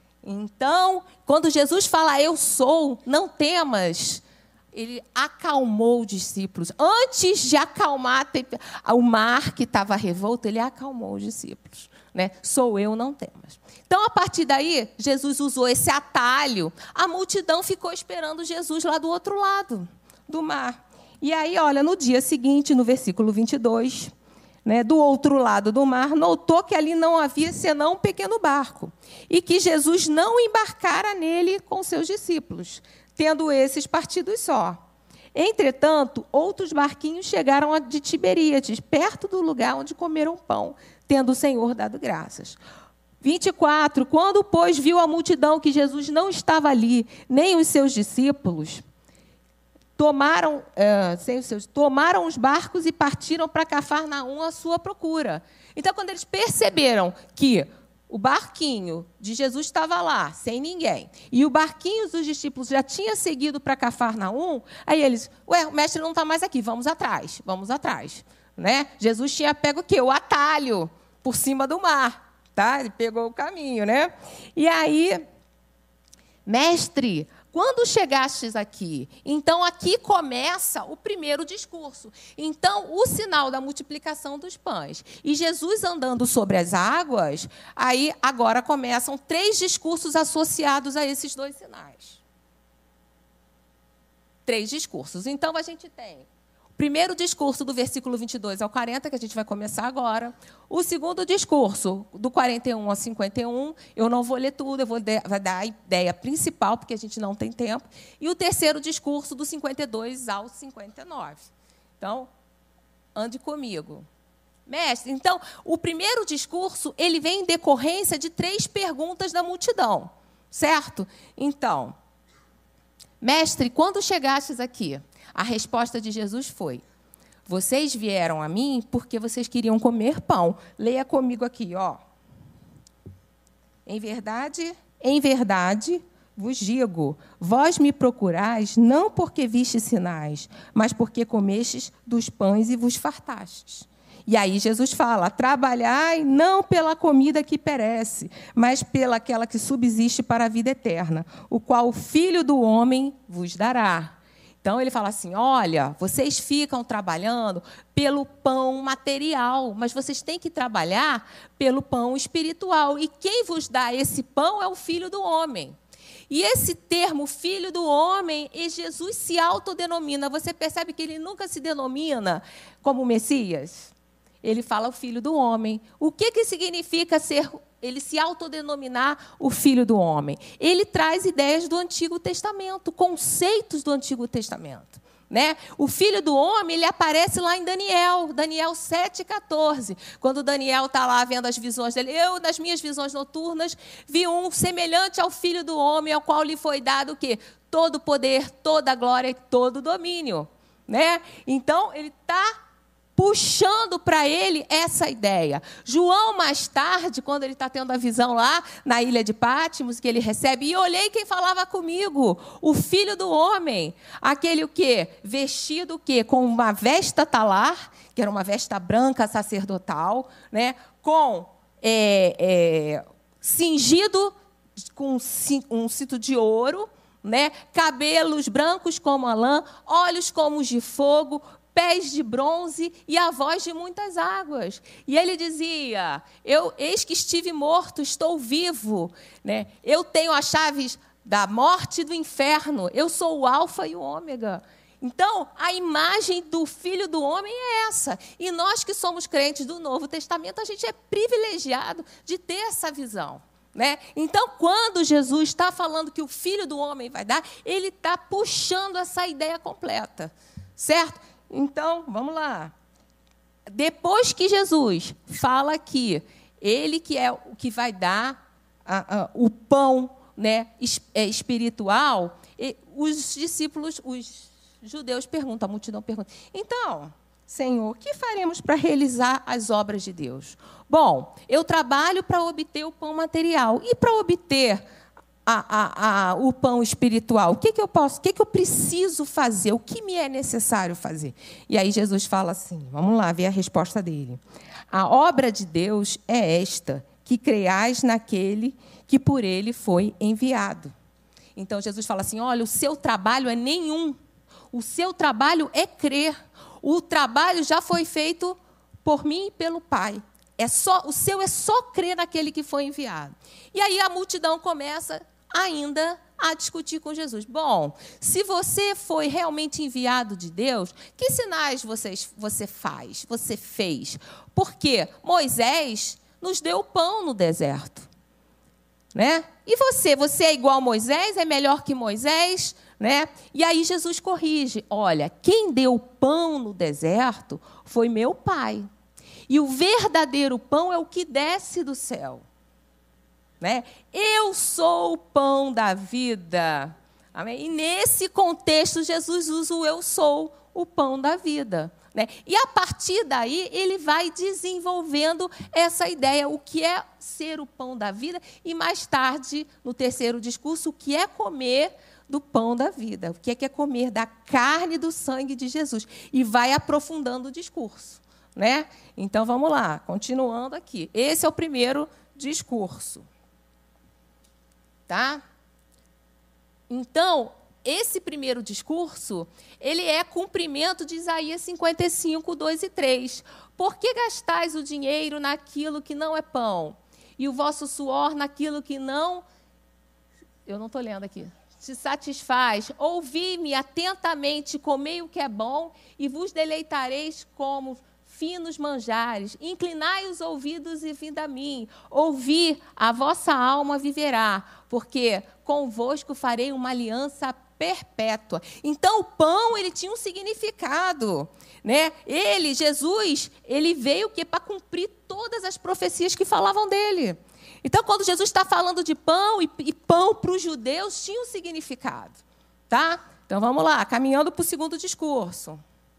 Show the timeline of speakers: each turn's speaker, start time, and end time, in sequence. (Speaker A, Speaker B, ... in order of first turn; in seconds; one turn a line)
Speaker A: 0.2-24.1
Speaker A: 24.6-34.8
Speaker A: 35.4-42.6
Speaker A: 43.2-48.8
Speaker A: 50.0-75.2
Speaker A: 76.5-92.2
Speaker A: 94.5-112.3
Speaker A: 113.2-114.1
Speaker A: 114.7-122.0
Speaker A: 123.2-126.8
Speaker A: 127.5-132.0
Speaker A: 133.9-165.8
Speaker A: 166.3-173.9
Speaker A: 174.4-202.5
Speaker A: 203.2-262.7
Speaker A: 263.7-284.8
Speaker A: 285.5-294.4
Speaker A: 294.9-300.9
Speaker A: 301.6-304.2
Speaker A: 304.7-328.1
Speaker A: 329.1-338.9
Speaker A: 339.5-342.4
Speaker A: 343.6-373.3
Speaker A: 375.1-375.4
Speaker A: 376.9-389.4
Speaker A: 390.7-422.4
Speaker A: 422.9-425.8